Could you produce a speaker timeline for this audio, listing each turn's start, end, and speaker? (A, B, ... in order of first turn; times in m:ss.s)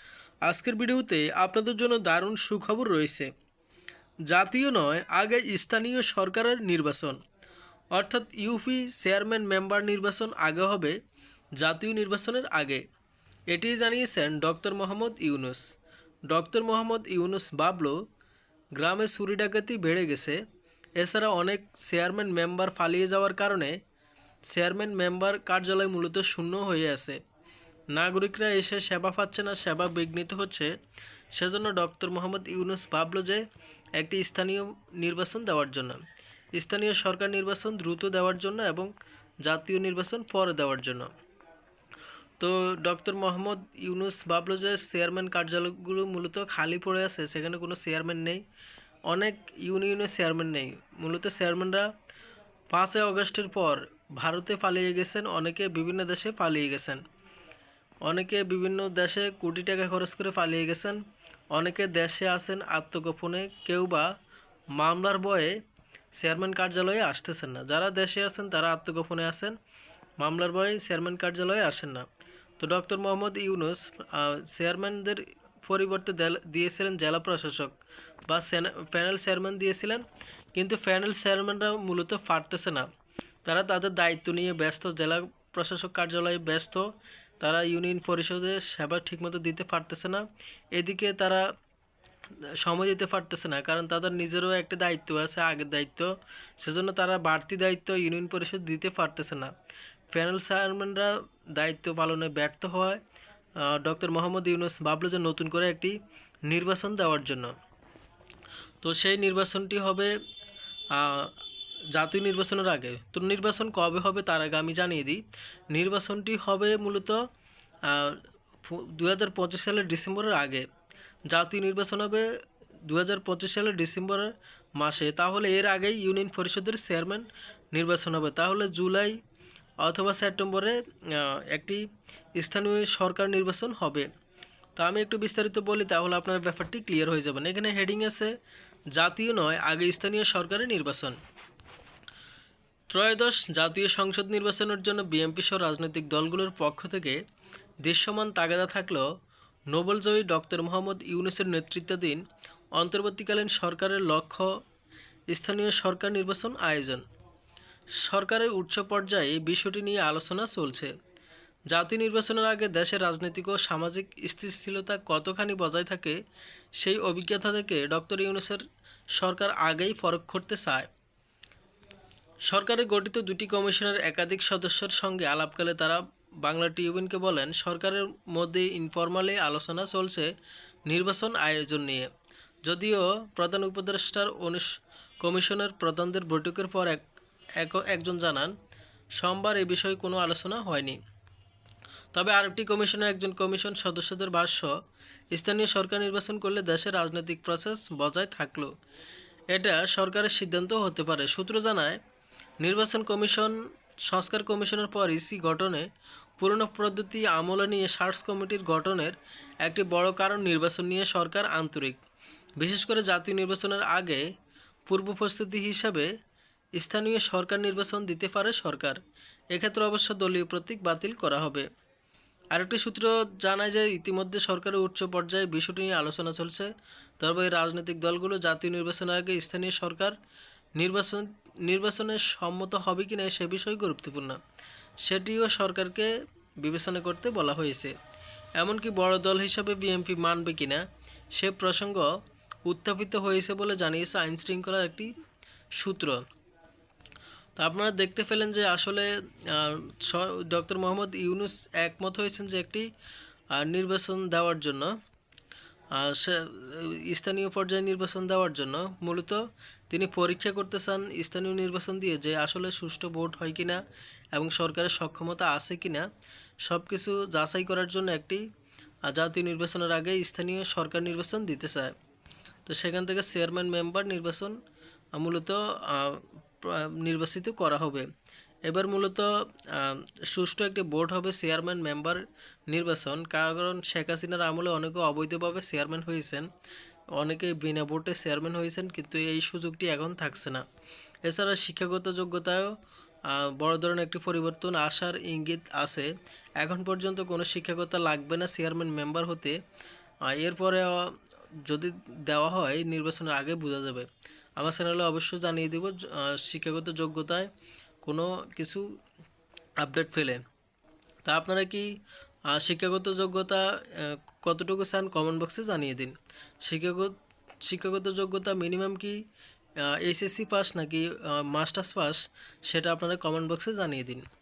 0:00.5-0:03.3 A
0:04.3-0:07.2 A
0:07.9-0:11.0 A
0:11.6-0:12.8 A
0:13.5-0:15.6 A
0:16.3-0:18.0 A
0:18.8-0:20.4 A
0:21.0-0:23.7 A
0:24.5-0:27.2 A
0:27.9-0:30.7 A
0:31.4-0:33.4 A
0:34.0-0:36.0 A
0:36.6-0:38.9 A
0:39.4-0:41.1 A
0:42.4-0:48.4 A
0:49.1-0:51.9 A
0:52.7-0:57.0 A
0:58.0-1:01.0 A
1:01.5-1:04.1 A
1:04.8-1:05.6 A
1:06.2-1:09.6 A
1:10.2-1:12.1 A
1:12.6-1:17.8 A
1:18.3-1:20.0 A
1:20.6-1:22.9 A
1:23.4-1:26.9 A
1:27.4-1:30.2 A
1:30.8-1:31.5 A
1:32.6-1:39.5 A
1:40.1-1:43.0 A
1:43.6-1:46.0 A
1:46.5-1:47.5 A
1:48.8-1:50.1 A
1:50.9-1:51.3 A
1:51.9-1:57.2 A
1:57.9-2:00.7 A
2:01.3-2:02.3 A
2:02.9-2:09.2 A
2:09.8-2:11.8 A
2:12.4-2:14.1 A
2:14.8-2:18.3 A
2:19.0-2:21.2 A
2:22.9-2:27.2 A
2:27.8-2:29.1 A
2:29.7-2:32.2 A
2:32.8-2:34.5 A
2:35.3-2:37.0 A
2:38.0-2:40.9 A
2:41.7-2:46.2 A
2:46.8-2:48.6 A
2:49.2-2:50.9 A
2:52.5-3:00.3 A
3:00.9-3:02.1 A
3:02.7-3:04.7 A
3:05.2-3:07.0 A
3:07.6-3:08.5 A
3:09.2-3:11.0 A
3:12.1-3:14.7 A
3:15.3-3:18.7 A
3:19.5-3:22.0 A
3:22.6-3:25.9 A
3:26.4-3:32.0 A
3:32.6-3:34.3 A
3:34.9-3:36.1 A
3:36.8-3:39.0 A
3:39.5-3:41.7 A
3:42.5-3:46.7 A
3:47.2-3:50.1 A
3:50.8-3:54.4 A
3:55.0-3:57.9 A
3:58.6-4:00.8 A
4:01.4-4:02.1 A
4:02.7-4:05.1 A
4:05.8-4:06.2 A
4:07.6-4:12.9 A
4:13.5-4:14.9 A
4:15.9-4:23.8 A
4:24.3-4:26.1 A
4:26.7-4:28.4 A
4:29.1-4:31.9 A
4:32.7-4:34.6 A
4:35.2-4:38.1 A
4:38.7-4:46.5 A
4:47.2-4:50.6 A
4:51.2-4:52.8 A
4:53.3-4:59.6 A
5:00.3-5:01.1 A
5:01.6-5:04.1 A
5:04.6-5:07.5 A
5:08.0-5:08.8 A
5:09.8-5:10.4 A
5:11.2-5:11.9 A
5:12.5-5:17.1 A
5:17.6-5:19.2 A
5:19.8-5:24.2 A